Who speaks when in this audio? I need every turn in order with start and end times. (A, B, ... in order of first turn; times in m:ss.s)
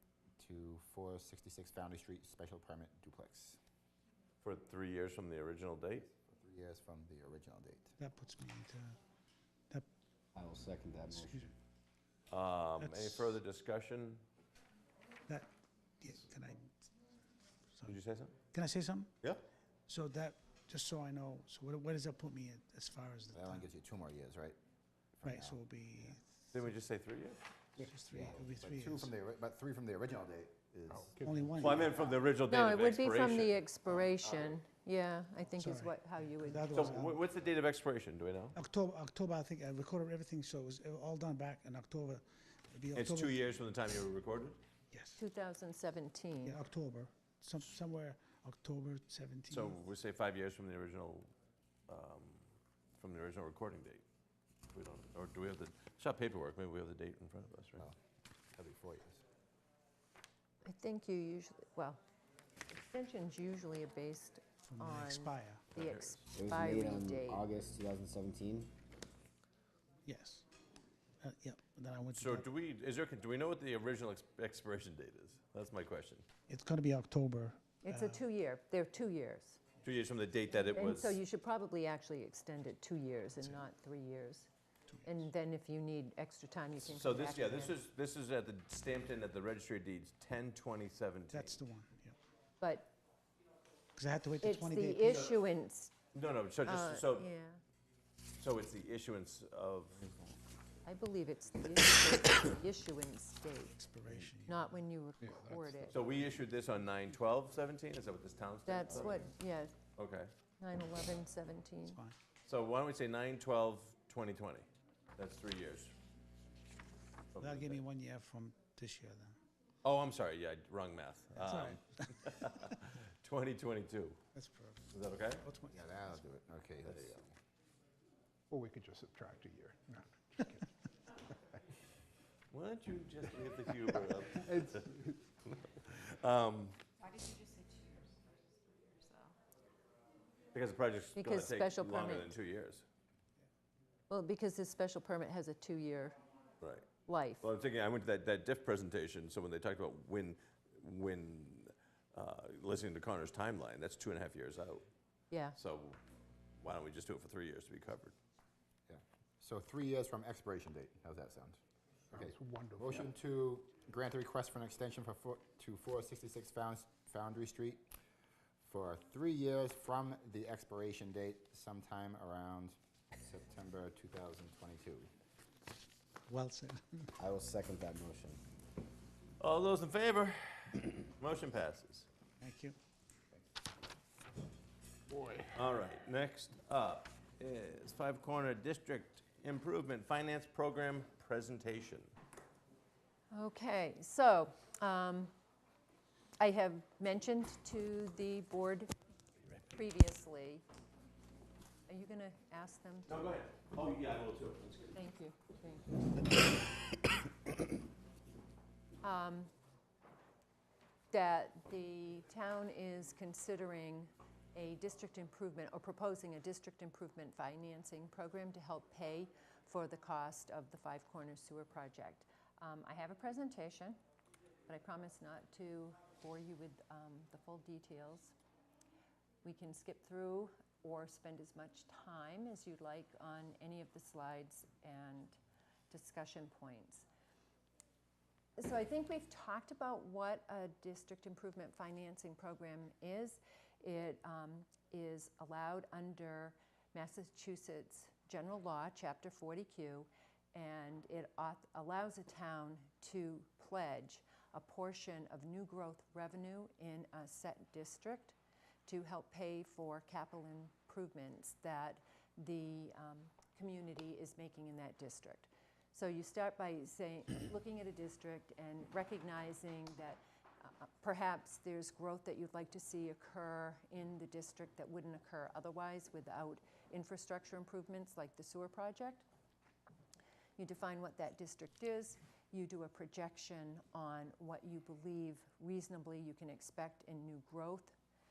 0:00.4-0:03.6 A
0:04.4-0:06.1 B
0:06.1-0:07.9 A
0:08.0-0:09.0 C
0:10.3-0:11.5 D
0:11.1-0:11.5 C
0:12.3-0:14.2 B
0:12.8-0:13.4 C
0:16.0-0:16.9 C
0:17.9-0:18.3 B
0:18.5-0:19.3 C
0:19.9-0:23.6 C
0:23.3-0:24.6 A
0:25.2-0:25.6 A
0:25.2-0:26.7 C
0:26.5-0:27.4 B
0:27.8-0:29.1 C
0:28.1-0:31.1 A
0:30.9-0:31.5 E
0:31.2-0:32.0 C
0:31.6-0:33.6 B
0:31.7-0:32.2 A
0:32.5-0:37.0 F
0:35.6-0:37.2 C
0:36.7-0:38.5 B
0:38.5-0:43.3 C
0:42.9-0:44.6 B
0:44.9-0:45.2 C
0:45.2-0:46.6 F
0:46.4-0:49.8 C
0:49.5-0:51.3 B
0:51.9-0:52.5 B
0:53.0-0:54.0 B
0:54.7-0:57.8 B
0:58.6-0:59.2 A
1:00.6-1:02.0 F
1:02.7-1:07.5 F
1:04.6-1:05.6 C
1:05.7-1:06.2 B
1:06.3-1:08.7 D
1:10.0-1:10.4 C
1:11.2-1:12.4 C
1:12.1-1:16.2 B
1:16.5-1:18.2 C
1:17.8-1:19.6 F
1:19.8-1:21.2 B
1:20.5-1:24.5 F
1:25.0-1:27.8 F
1:26.8-1:31.6 B
1:31.3-1:32.1 C
1:32.6-1:32.9 F
1:34.0-1:35.3 C
1:34.4-1:35.9 F
1:35.1-1:35.4 B
1:36.1-1:37.3 B
1:36.6-1:37.6 F
1:38.4-1:40.0 B
1:40.0-1:40.3 A
1:40.8-1:43.8 F
1:43.7-1:44.7 C
1:44.5-1:46.0 F
1:45.2-1:46.0 E
1:45.9-1:49.3 B
1:48.6-1:49.8 F
1:50.0-1:50.3 B
1:50.6-1:52.0 F
1:51.9-1:52.2 C
1:52.4-1:55.9 B
1:57.3-1:57.8 B
1:57.4-1:59.4 C
1:59.8-2:04.2 B
2:01.3-2:02.7 C
2:04.3-2:04.9 C
2:04.9-2:05.4 B
2:05.4-2:06.0 C
2:05.7-2:07.3 A
2:06.8-2:07.1 B
2:08.5-2:10.6 E
2:12.5-2:14.9 B
2:14.4-2:15.2 E
2:15.4-2:16.8 B
2:17.0-2:19.3 G
2:20.5-2:22.8 B
2:21.2-2:22.3 F
2:24.1-2:26.2 F
2:26.6-2:26.9 B
2:27.0-2:27.4 F
2:27.4-2:34.8 B
2:35.3-2:35.6 F
2:35.5-2:36.0 B
2:36.6-2:38.1 B
2:38.9-2:41.6 A
2:42.1-2:43.1 E
2:42.1-2:47.8 A
2:48.6-2:55.1 A
2:56.3-2:57.1 C
2:57.2-2:58.4 D
2:59.4-3:02.1 B
3:02.4-3:02.8 C
3:05.2-3:05.4 E
3:05.5-3:12.1 B
3:13.3-3:15.3 F
3:16.4-3:18.9 F
3:19.7-3:20.6 F
3:21.9-3:23.4 F
3:23.1-3:25.0 B
3:24.9-3:25.9 F
3:29.0-3:29.5 F
3:31.1-3:44.0 F
3:44.7-3:48.3 F
3:49.4-3:55.4 F
3:55.9-3:57.0 F
3:58.6-4:39.2 F
4:40.6-4:47.9 F